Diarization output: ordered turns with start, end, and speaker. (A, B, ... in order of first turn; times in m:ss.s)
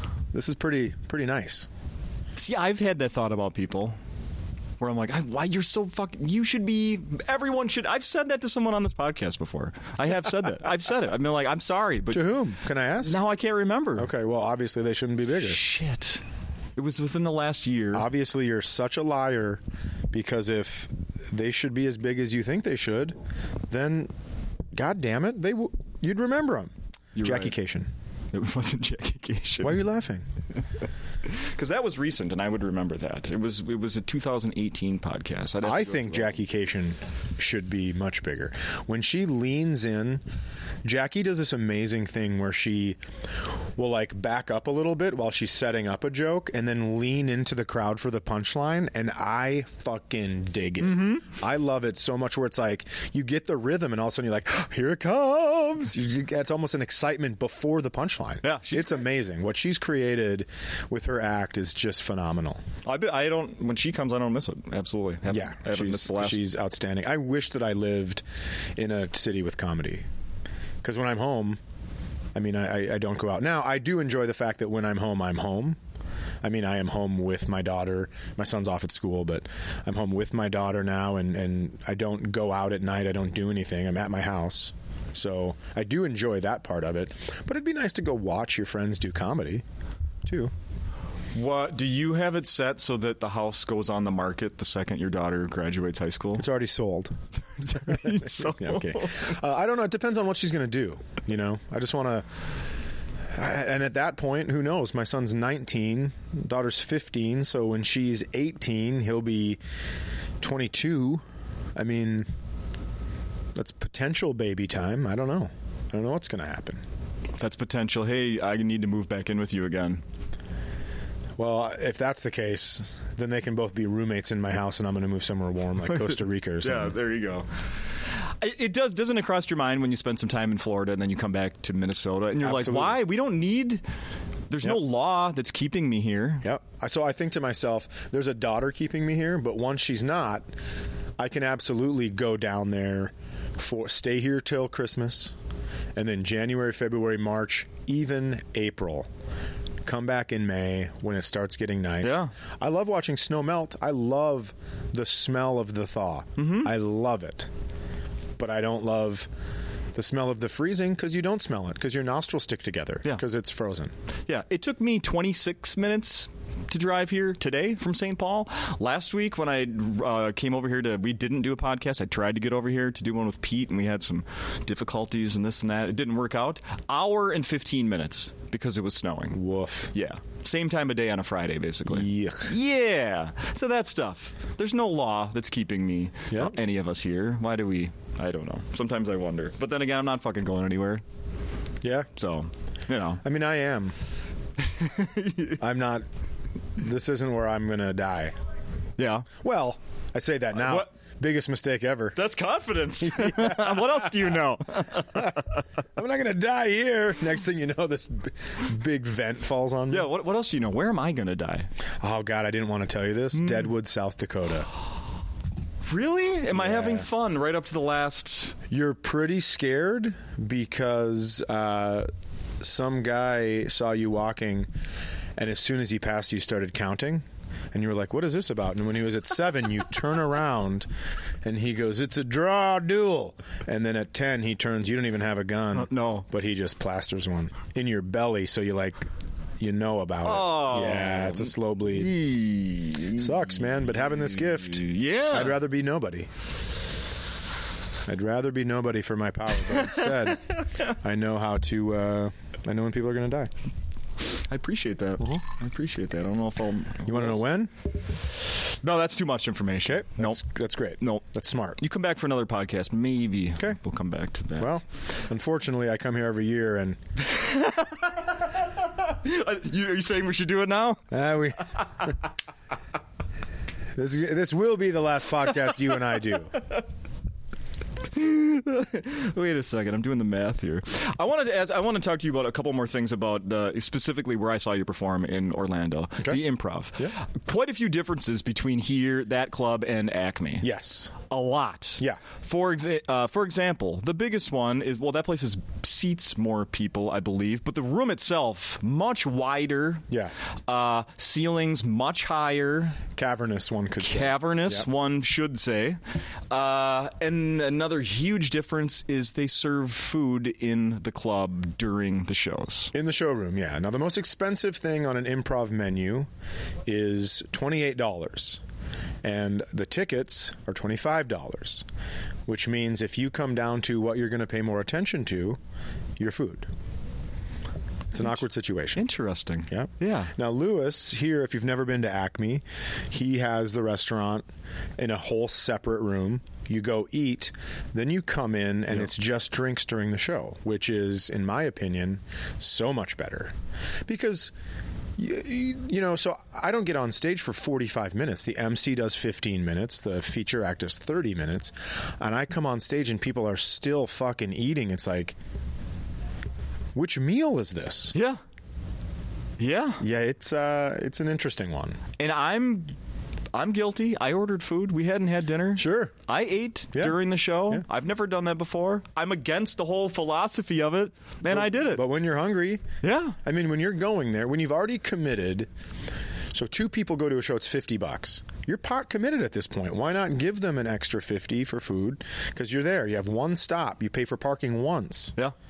0:00.3-0:01.7 A
0:02.4-0:04.0 B
0:04.8-0:12.3 B
0:12.1-0:13.2 A
0:13.0-0:14.1 B
0:14.0-0:15.6 A
0:15.4-0:16.2 B
0:16.8-0:18.1 B
0:17.9-0:23.2 A
0:23.7-0:24.1 A
0:24.7-0:27.9 A
0:27.2-0:27.5 B
0:28.3-0:29.8 B
0:29.6-0:30.2 A
0:31.2-0:36.3 B
0:35.6-0:40.2 A
0:40.8-1:02.6 A
0:50.8-0:51.2 B
0:58.4-0:59.0 B
1:02.8-1:06.4 B
1:05.3-1:08.2 A
1:08.8-1:10.0 A
1:10.8-1:11.6 A
1:12.3-1:15.8 A
1:16.4-1:29.6 A
1:30.2-1:30.5 A
1:31.3-1:36.5 B
1:36.4-1:37.1 A
1:37.6-1:39.3 B
1:37.7-1:42.2 A
1:43.3-1:49.6 A
1:50.4-1:51.2 A
1:51.7-1:52.3 A
1:53.5-1:56.8 A
1:57.4-2:00.0 B
2:01.4-2:06.9 A
2:05.9-2:07.5 B
2:08.2-2:13.8 B
2:12.4-2:13.0 A
2:14.5-2:16.4 B
2:16.4-2:20.4 A
2:21.2-2:25.4 A
2:26.0-2:29.1 A
2:29.8-2:37.5 A
2:32.0-2:32.3 B
2:36.4-2:36.7 B
2:38.4-2:39.3 A
2:39.9-2:43.9 A
2:44.3-2:59.4 B
2:59.3-2:59.9 A
2:59.9-3:11.0 B
3:01.9-3:02.5 A
3:11.8-3:12.1 A
3:12.2-3:13.2 B
3:13.2-3:13.9 A
3:14.6-3:15.6 B
3:15.6-3:16.0 A
3:16.8-3:18.3 A
3:19.0-3:19.3 B
3:19.4-3:22.2 A
3:20.6-3:20.9 B
3:22.2-3:25.5 B
3:23.0-3:24.3 A
3:25.0-3:25.4 A
3:26.0-3:30.1 A
3:29.9-3:31.7 B
3:32.0-3:34.7 A
3:35.8-3:38.6 B
3:36.5-3:37.1 A
3:38.7-3:42.1 A
3:42.6-3:44.7 A
3:45.4-3:50.9 A
3:51.4-3:59.1 A
3:55.7-3:56.3 B
3:59.6-4:02.1 A
4:00.2-4:05.6 B
4:03.1-4:06.3 A
4:08.0-4:13.5 A
4:14.3-4:17.4 B
4:17.0-4:17.7 A
4:18.7-4:20.4 B
4:19.8-4:21.8 A
4:21.0-4:21.2 B
4:21.8-4:24.8 B
4:24.6-4:27.0 A
4:27.2-4:31.1 B
4:31.1-4:32.1 A
4:33.9-4:36.6 A
4:38.1-4:50.7 B
4:50.6-4:51.1 A
4:51.2-5:00.0 B
5:00.7-5:03.0 B
5:03.1-5:04.8 A
5:04.0-5:06.0 B
5:06.5-5:12.9 B
5:12.9-5:16.3 A
5:16.8-5:18.6 A
5:19.2-5:21.8 A
5:22.5-5:25.6 A
5:26.2-5:26.7 A
5:28.1-5:29.0 A
5:29.0-5:30.3 B
5:29.7-5:34.4 A
5:35.0-5:43.5 A
5:44.1-5:44.5 A
5:45.2-5:55.4 A
5:56.9-5:58.1 A
5:58.1-5:58.4 B
5:59.6-6:00.0 B
6:00.0-6:02.0 A
6:02.2-6:02.9 B
6:03.5-6:12.0 B
6:05.8-6:06.1 A
6:11.5-6:12.8 A
6:13.0-6:13.4 B
6:13.4-6:15.7 A
6:16.5-6:25.3 A